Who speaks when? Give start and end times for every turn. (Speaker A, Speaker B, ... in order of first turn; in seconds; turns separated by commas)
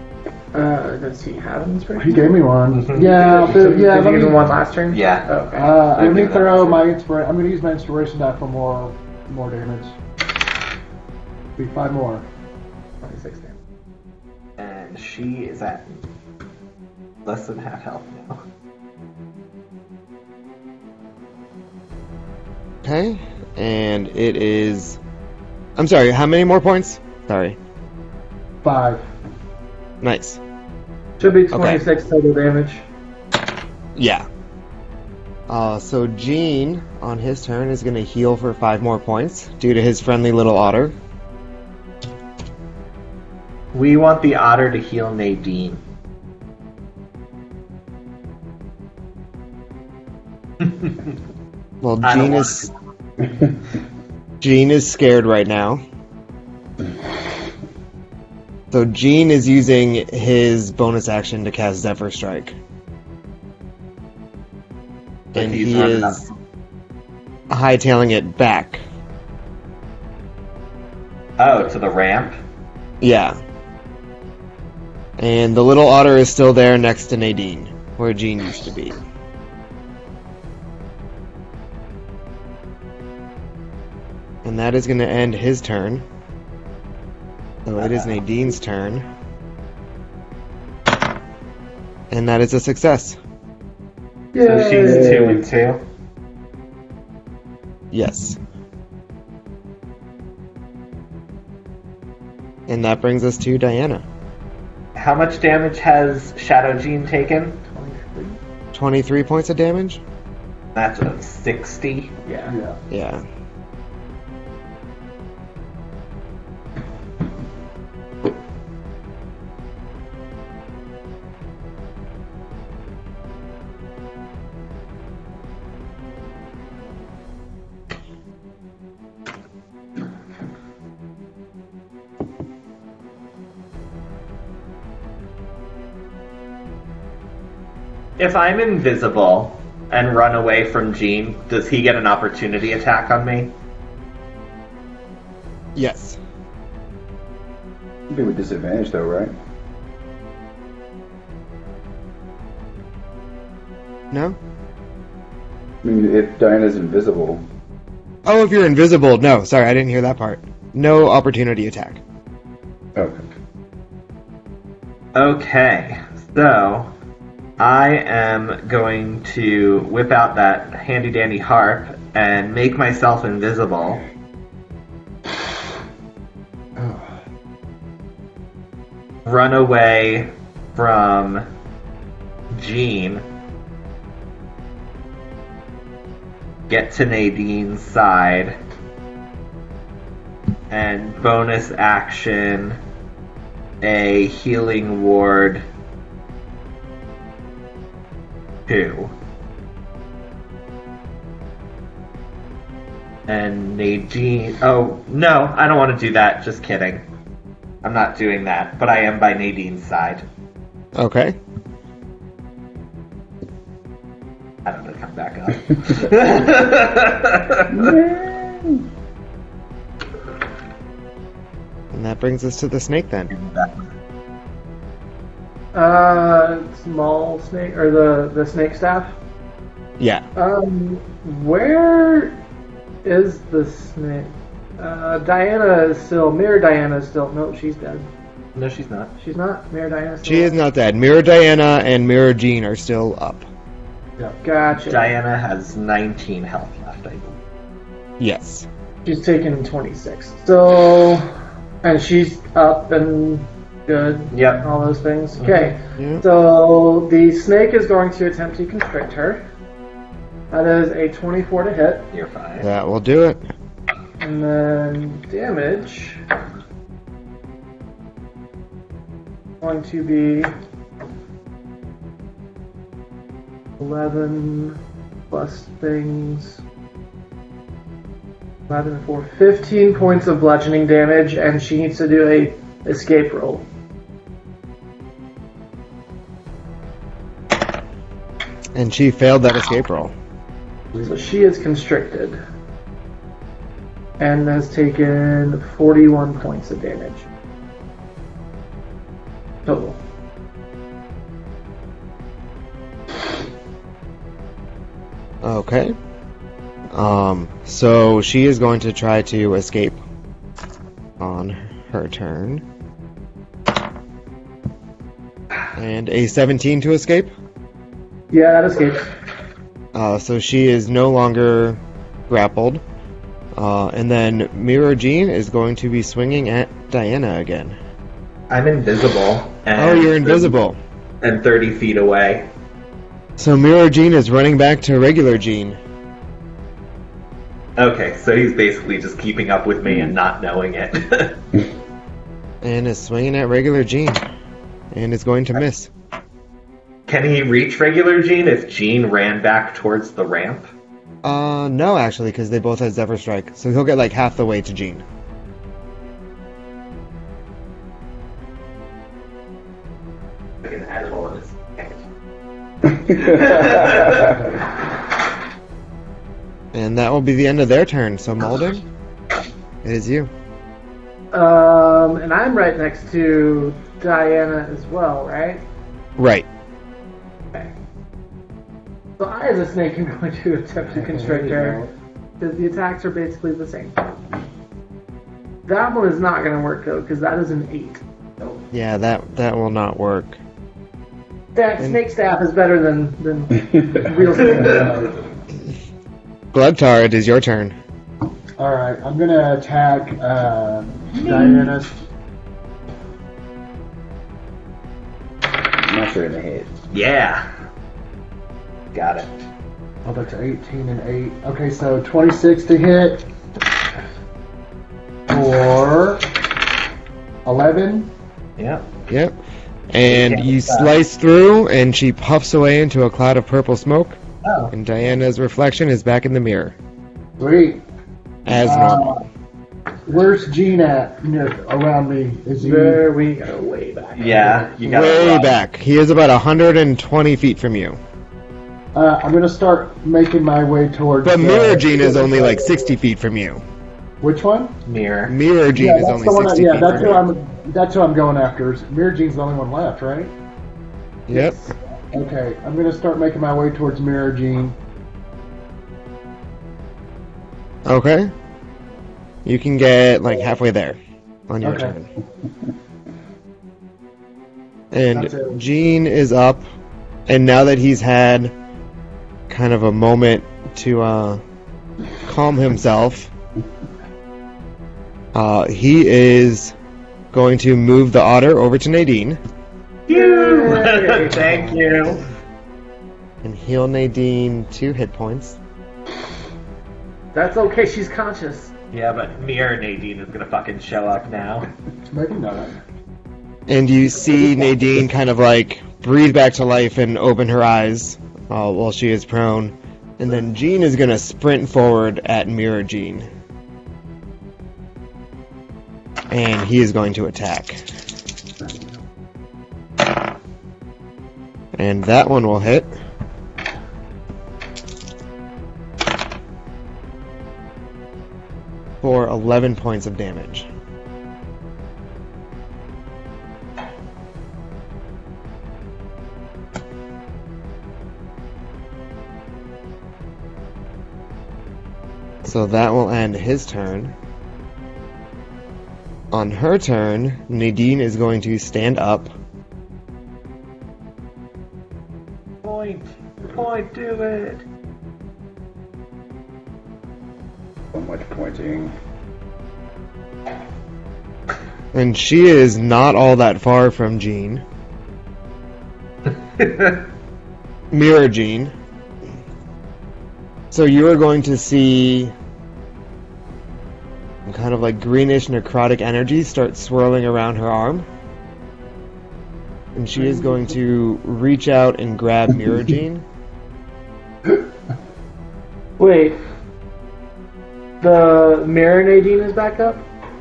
Speaker A: 0.5-2.3, Speaker B: 1.9-4.4, Speaker A: 2.9-5.7, Speaker C: 4.9-5.3, Speaker B: 5.5-10.0, Speaker C: 5.9-6.8, Speaker B: 11.6-12.2, Speaker A: 13.0-13.6, Speaker C: 14.6-16.1, Speaker C: 17.2-18.4, Speaker D: 22.8-25.0, Speaker D: 25.8-27.6, Speaker B: 28.6-29.0, Speaker D: 30.0-30.4, Speaker A: 31.2-32.8, Speaker D: 31.5-31.8, Speaker D: 33.9-34.3, Speaker D: 35.5-40.9, Speaker C: 43.7-45.8, Speaker C: 50.6-51.1, Speaker D: 51.8-52.7, Speaker C: 52.0-52.7, Speaker D: 54.4-55.8, Speaker D: 58.7-62.5, Speaker C: 65.3-66.3, Speaker D: 65.3-66.2, Speaker D: 67.5-68.8, Speaker C: 71.4-72.4, Speaker D: 73.0-73.4, Speaker D: 75.2-79.0, Speaker D: 84.4-86.0, Speaker D: 87.7-89.0, Speaker D: 92.1-93.2, Speaker A: 94.3-95.4, Speaker C: 94.4-95.8, Speaker E: 94.8-95.3, Speaker D: 97.9-98.4, Speaker D: 102.7-104.0, Speaker C: 104.9-107.6, Speaker A: 107.7-108.4, Speaker D: 108.7-110.0, Speaker C: 110.7-112.5, Speaker B: 112.5-112.8, Speaker D: 112.9-113.2, Speaker C: 138.2-143.5, Speaker D: 145.7-146.2, Speaker E: 148.1-149.3, Speaker D: 154.1-154.4, Speaker E: 155.8-157.4, Speaker D: 158.2-162.0, Speaker E: 162.9-163.2, Speaker C: 165.1-166.9, Speaker C: 167.6-174.0, Speaker B: 176.8-177.1, Speaker C: 179.2-181.4, Speaker C: 182.5-183.2, Speaker C: 186.7-188.6, Speaker C: 190.7-192.8, Speaker C: 193.8-195.6, Speaker C: 198.7-199.1, Speaker C: 203.3-207.0, Speaker C: 207.8-210.2, Speaker D: 210.9-211.4, Speaker C: 214.6-217.9, Speaker E: 217.7-218.8, Speaker D: 221.9-223.3, Speaker C: 223.3-223.9, Speaker A: 225.7-229.1, Speaker D: 230.0-230.2, Speaker A: 230.3-232.4, Speaker A: 233.0-238.1, Speaker C: 238.5-239.1, Speaker A: 239.2-240.6, Speaker D: 240.2-243.5, Speaker A: 244.4-245.1, Speaker C: 244.9-247.3, Speaker D: 248.2-248.7, Speaker A: 249.0-251.3, Speaker A: 251.8-259.4, Speaker C: 254.3-254.6, Speaker C: 255.4-255.7, Speaker D: 256.0-256.2, Speaker A: 260.5-262.1, Speaker C: 262.1-262.7, Speaker D: 262.6-263.4, Speaker A: 264.2-266.2, Speaker A: 269.6-270.5, Speaker A: 273.8-274.8, Speaker A: 275.3-276.6, Speaker A: 278.7-283.6, Speaker D: 288.7-290.1, Speaker A: 291.0-292.4, Speaker A: 294.2-297.3, Speaker A: 299.6-300.0, Speaker D: 305.4-305.9, Speaker D: 306.9-310.0, Speaker D: 311.2-312.6, Speaker D: 315.7-317.3, Speaker A: 318.3-319.1, Speaker D: 319.9-322.8, Speaker D: 323.6-327.8, Speaker C: 328.5-330.5, Speaker D: 329.7-330.8, Speaker C: 331.2-332.5, Speaker D: 333.4-335.8, Speaker C: 337.8-341.4, Speaker D: 342.6-344.2, Speaker D: 344.9-345.9, Speaker C: 347.1-350.7, Speaker D: 351.2-355.0, Speaker C: 360.6-361.6, Speaker E: 363.0-364.3, Speaker C: 363.2-364.3, Speaker B: 364.2-364.4, Speaker D: 366.7-368.8, Speaker D: 369.8-370.3, Speaker A: 371.3-375.6, Speaker D: 376.2-376.5, Speaker A: 379.2-381.8, Speaker B: 380.9-381.9, Speaker A: 382.4-384.1, Speaker A: 385.7-388.6, Speaker D: 388.7-390.4, Speaker A: 391.5-395.0, Speaker B: 394.0-395.2, Speaker D: 396.5-397.7, Speaker B: 398.6-402.0, Speaker E: 405.6-406.7, Speaker C: 406.9-407.4, Speaker C: 408.9-409.3, Speaker B: 410.0-413.3, Speaker B: 415.3-416.3, Speaker B: 417.4-418.1, Speaker C: 418.6-418.9, Speaker D: 419.1-419.3, Speaker D: 419.9-424.2, Speaker C: 420.1-420.9, Speaker C: 424.4-424.7, Speaker D: 424.7-426.7, Speaker B: 427.4-427.8, Speaker D: 428.4-429.2, Speaker B: 428.5-429.2, Speaker B: 430.1-433.0, Speaker A: 432.6-434.7, Speaker C: 434.2-435.6, Speaker D: 434.8-438.0, Speaker B: 438.9-442.8, Speaker D: 441.2-443.6, Speaker B: 444.2-444.8, Speaker C: 444.9-445.3, Speaker D: 445.3-447.2, Speaker B: 445.7-450.3, Speaker D: 451.3-451.6, Speaker A: 451.3-451.7, Speaker B: 452.1-454.8, Speaker D: 457.9-458.3, Speaker D: 459.4-462.1, Speaker B: 461.6-461.9, Speaker D: 464.9-466.6, Speaker B: 465.1-465.6, Speaker D: 467.3-468.5, Speaker D: 469.5-471.4, Speaker D: 472.2-473.3, Speaker D: 475.3-476.7, Speaker D: 477.3-479.4, Speaker C: 480.1-482.2, Speaker A: 480.1-481.4, Speaker D: 481.4-481.7, Speaker D: 483.4-485.6, Speaker A: 487.3-488.7, Speaker C: 488.9-491.7, Speaker B: 492.1-492.8, Speaker D: 493.7-503.3, Speaker D: 506.3-507.8, Speaker D: 511.8-512.9, Speaker D: 519.0-520.7, Speaker D: 532.4-534.1, Speaker D: 536.3-539.3, Speaker C: 542.6-544.6, Speaker E: 547.9-548.9, Speaker D: 551.9-554.6, Speaker C: 556.6-557.0, Speaker D: 557.9-558.7, Speaker D: 560.7-562.3, Speaker D: 564.5-568.0, Speaker D: 569.9-573.2, Speaker A: 570.2-570.6, Speaker A: 576.0-576.4, Speaker A: 578.0-580.0